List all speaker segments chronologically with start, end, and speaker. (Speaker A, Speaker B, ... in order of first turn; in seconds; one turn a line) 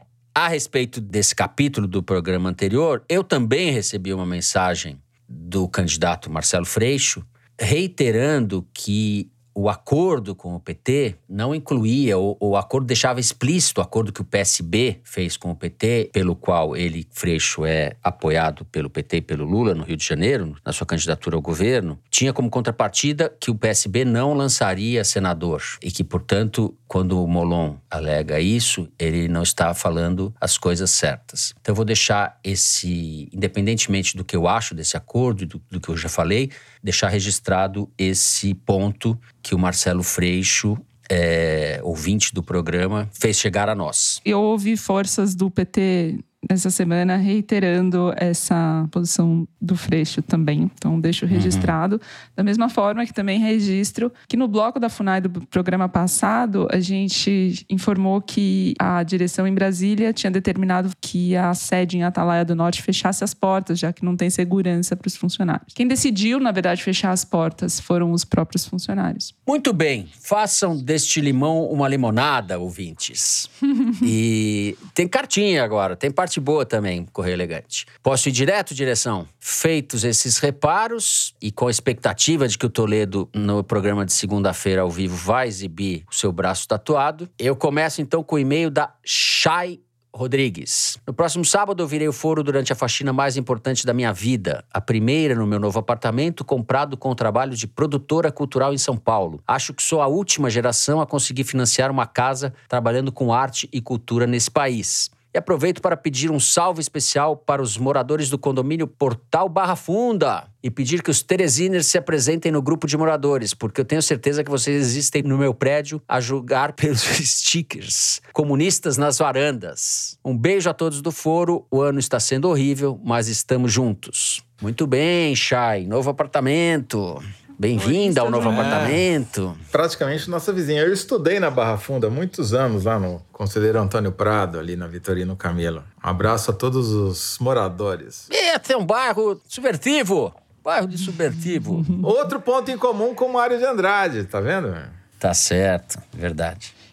Speaker A: 0.4-44.2
Speaker B: 44.2-69.3
Speaker A: 51.3-51.7
Speaker A: 69.5-129.6
Speaker B: 127.8-128.9
Speaker C: 128.4-129.1
Speaker C: 129.7-138.3
Speaker A: 138.3-141.9
Speaker C: 142.0-144.9
Speaker A: 145.2-146.7